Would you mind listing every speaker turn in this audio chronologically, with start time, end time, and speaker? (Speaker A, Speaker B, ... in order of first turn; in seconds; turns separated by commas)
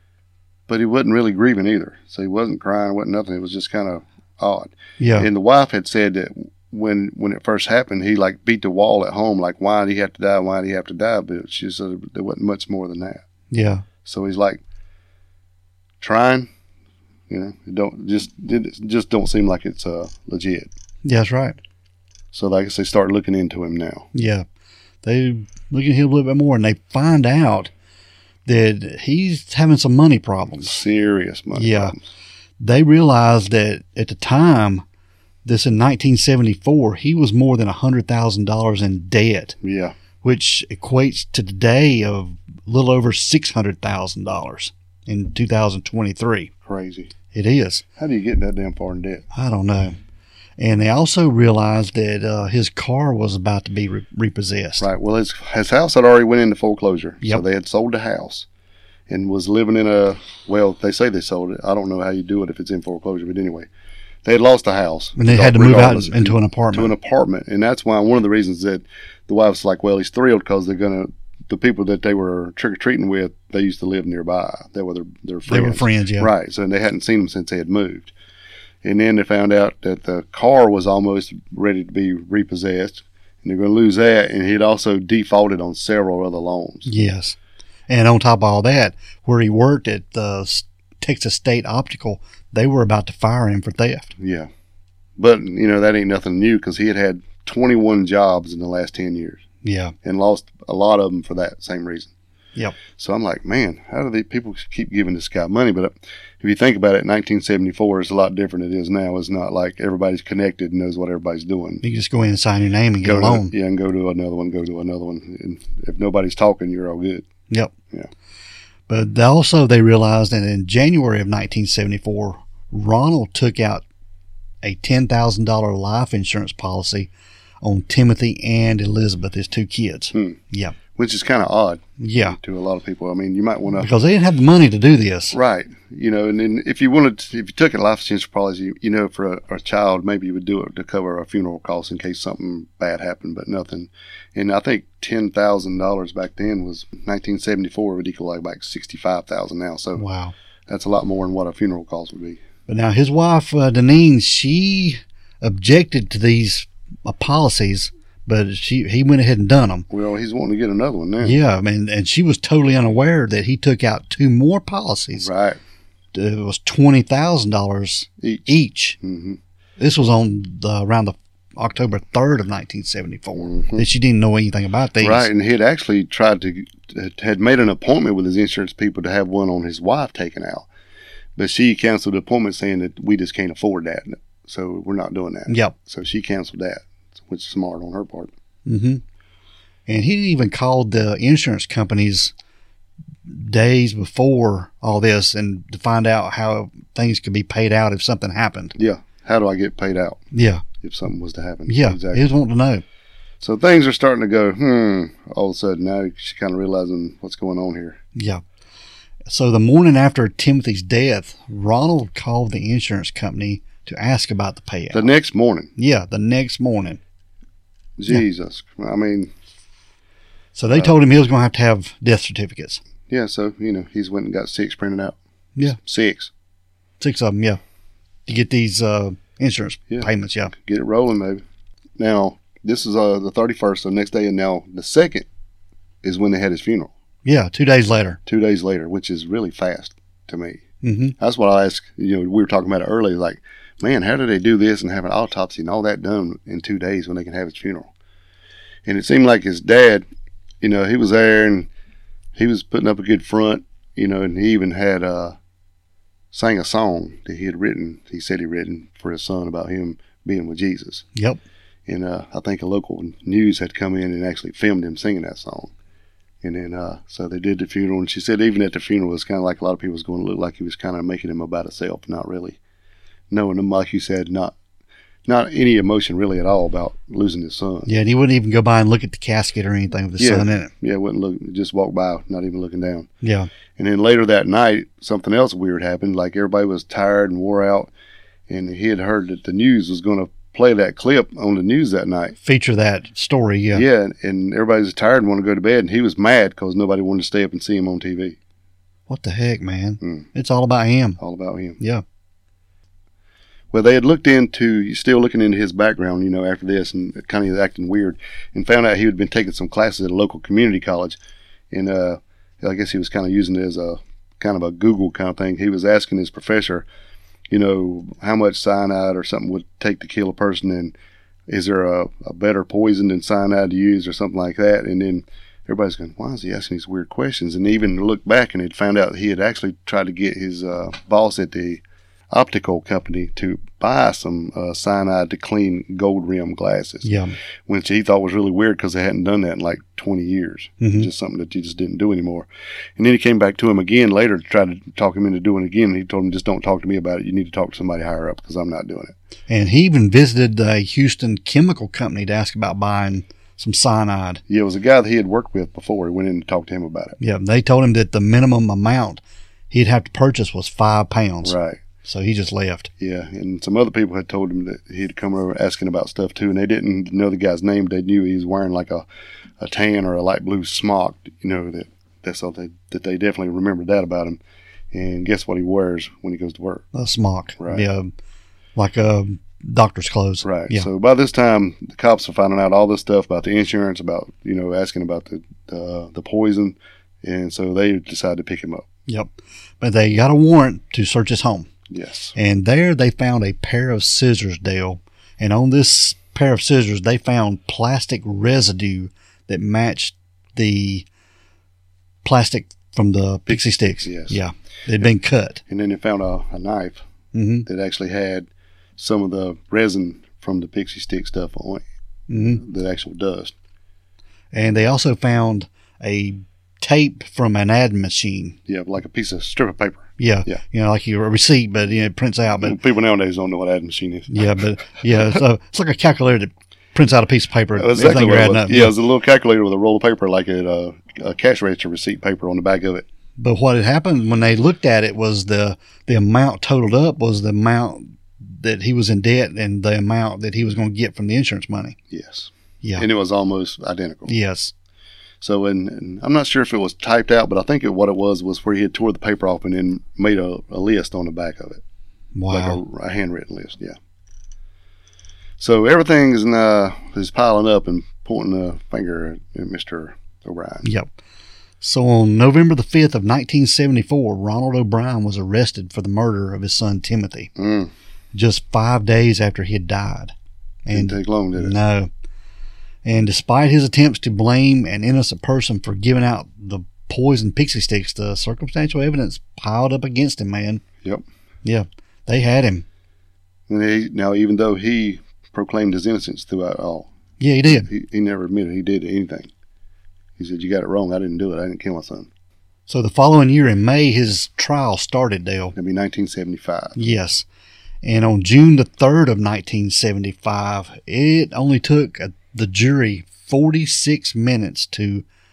Speaker A: 0.7-13.2, Speaker B: 5.0-5.3, Speaker B: 13.5-13.8, Speaker A: 14.0-14.6, Speaker A: 16.0-16.5, Speaker A: 17.3-20.7, Speaker B: 21.1-21.6, Speaker A: 22.3-24.1, Speaker B: 24.1-24.5, Speaker B: 25.0-27.7, Speaker B: 28.5-30.8, Speaker A: 30.6-32.0, Speaker B: 31.6-31.9, Speaker B: 32.6-34.9, Speaker B: 35.5-39.6, Speaker A: 39.6-40.0, Speaker B: 40.2-46.5, Speaker A: 46.6-47.1, Speaker B: 47.3-47.8, Speaker A: 48.0-49.2, Speaker B: 49.3-50.0, Speaker B: 50.6-54.9, Speaker A: 54.8-58.5, Speaker A: 59.1-63.7, Speaker A: 64.2-78.1, Speaker B: 65.2-66.9, Speaker B: 75.5-76.3, Speaker A: 78.8-86.9, Speaker B: 86.9-87.4, Speaker B: 87.9-94.1, Speaker A: 94.2-94.5, Speaker A: 95.2-99.4, Speaker B: 99.6-99.9, Speaker A: 100.0-102.1, Speaker A: 102.9-111.8, Speaker B: 111.8-113.5, Speaker A: 113.0-117.3, Speaker B: 118.9-123.8, Speaker B: 124.6-127.1, Speaker B: 127.6-130.8, Speaker A: 130.9-133.9, Speaker B: 132.0-132.4, Speaker B: 133.8-135.4, Speaker A: 135.3-150.0, Speaker B: 150.0-150.3, Speaker A: 150.7-152.4, Speaker B: 152.7-159.9, Speaker A: 159.9-161.4, Speaker B: 161.2-165.3, Speaker A: 165.2-165.6, Speaker B: 166.1-169.0, Speaker A: 168.2-168.5, Speaker A: 169.0-169.4, Speaker B: 169.8-175.3, Speaker A: 173.4-173.9, Speaker A: 175.0-180.7, Speaker A: 181.4-188.3, Speaker B: 185.5-185.7, Speaker B: 188.7-189.0, Speaker B: 189.9-192.3, Speaker B: 193.3-198.8, Speaker A: 198.8-200.2, Speaker B: 200.3-200.6, Speaker A: 200.8-202.2, Speaker B: 201.7-202.8, Speaker A: 203.4-208.0, Speaker B: 208.2-208.4, Speaker B: 209.3-215.1, Speaker A: 214.9-215.7, Speaker B: 215.8-217.0, Speaker A: 218.0-219.3, Speaker B: 220.6-222.8, Speaker A: 223.1-226.3, Speaker B: 227.0-227.6, Speaker B: 228.3-230.5, Speaker A: 229.9-231.4, Speaker A: 232.0-235.3, Speaker A: 236.0-236.9, Speaker B: 237.2-238.2, Speaker A: 238.3-240.6, Speaker B: 240.8-241.2, Speaker A: 241.2-247.9, Speaker A: 248.9-250.1, Speaker A: 250.6-251.7, Speaker A: 252.4-255.4, Speaker A: 256.3-261.1, Speaker A: 261.9-265.7, Speaker A: 266.4-272.6, Speaker A: 273.3-274.6, Speaker A: 275.3-277.9, Speaker B: 277.9-280.7, Speaker A: 280.2-283.1, Speaker B: 283.2-283.5, Speaker A: 283.8-287.9, Speaker A: 288.5-292.4, Speaker B: 292.4-293.8, Speaker A: 293.7-298.4, Speaker B: 299.1-301.2, Speaker A: 301.2-301.8, Speaker A: 303.7-311.2, Speaker A: 311.7-316.9, Speaker A: 317.5-320.9, Speaker A: 321.5-337.1, Speaker B: 337.0-337.4, Speaker A: 337.7-349.1, Speaker B: 340.8-341.1, Speaker B: 349.5-354.4, Speaker A: 354.5-357.2, Speaker B: 357.2-362.9, Speaker A: 361.4-361.8, Speaker A: 363.0-369.1, Speaker A: 369.6-374.4, Speaker A: 374.9-376.9, Speaker B: 376.9-378.1, Speaker A: 377.6-377.9, Speaker B: 378.8-380.9, Speaker A: 380.4-388.9, Speaker B: 389.1-391.7, Speaker A: 391.9-392.4, Speaker B: 392.4-401.1, Speaker B: 402.2-405.6, Speaker A: 403.5-404.4, Speaker A: 405.7-407.1, Speaker B: 407.3-407.7, Speaker A: 407.7-411.8, Speaker B: 412.3-412.6, Speaker A: 412.5-413.5, Speaker B: 414.5-418.6, Speaker A: 418.7-420.6, Speaker B: 420.2-422.8, Speaker A: 422.6-424.6, Speaker B: 424.3-428.9, Speaker A: 427.8-433.1, Speaker B: 433.4-442.0, Speaker A: 442.1-444.3, Speaker B: 444.3-444.7, Speaker A: 445.4-451.8, Speaker B: 452.4-452.8, Speaker A: 452.5-454.0, Speaker A: 455.6-460.9, Speaker B: 460.8-461.1, Speaker B: 461.8-467.5, Speaker A: 467.6-467.9, Speaker B: 468.3-470.3, Speaker B: 470.9-472.1, Speaker A: 470.9-471.8, Speaker B: 473.1-480.8, Speaker B: 481.6-482.9, Speaker A: 483.7-487.1, Speaker B: 487.4-487.9, Speaker A: 487.7-489.5, Speaker A: 490.4-492.3, Speaker B: 492.9-495.8, Speaker A: 495.8-497.0, Speaker B: 497.0-497.5, Speaker B: 498.0-505.2